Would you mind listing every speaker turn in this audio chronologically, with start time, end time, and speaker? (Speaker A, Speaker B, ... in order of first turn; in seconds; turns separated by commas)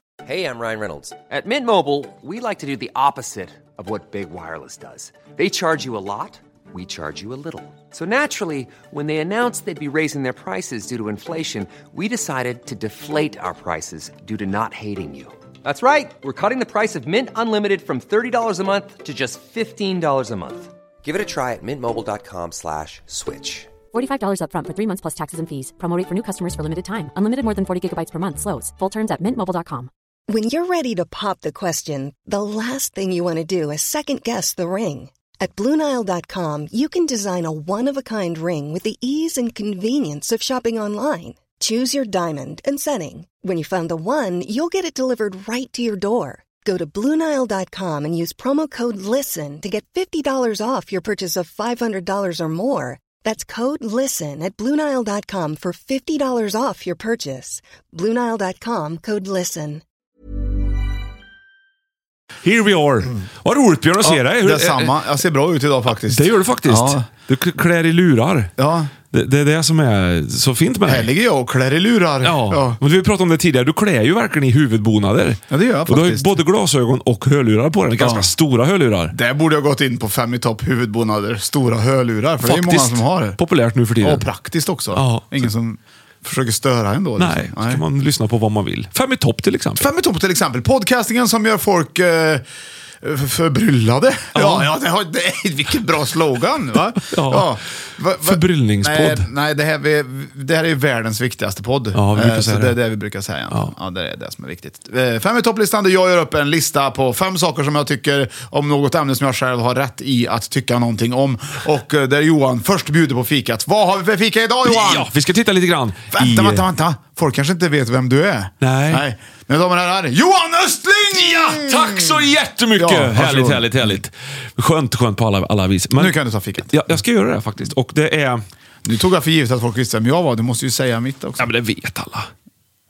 Speaker A: 0.2-23.7, Speaker B: 23.9-29.9, Speaker C: 30.3-59.8, Speaker D: 62.4-65.0, Speaker E: 64.0-67.0, Speaker D: 66.0-68.5, Speaker E: 68.6-68.9, Speaker D: 69.1-71.1, Speaker E: 70.9-72.8, Speaker D: 72.2-79.2, Speaker E: 75.5-76.4, Speaker E: 78.0-78.3, Speaker E: 79.1-83.4, Speaker D: 82.4-84.3, Speaker E: 84.0-87.8, Speaker D: 84.9-85.5, Speaker D: 87.2-89.9, Speaker E: 89.8-92.5, Speaker E: 93.0-115.1, Speaker D: 94.3-94.7, Speaker D: 97.1-97.5, Speaker D: 98.2-99.3, Speaker D: 101.9-102.8, Speaker D: 114.7-116.6, Speaker E: 116.1-122.2, Speaker D: 118.6-119.0, Speaker D: 121.1-128.4, Speaker E: 122.8-124.0, Speaker E: 126.0-126.8, Speaker E: 128.8-131.5, Speaker D: 131.4-132.3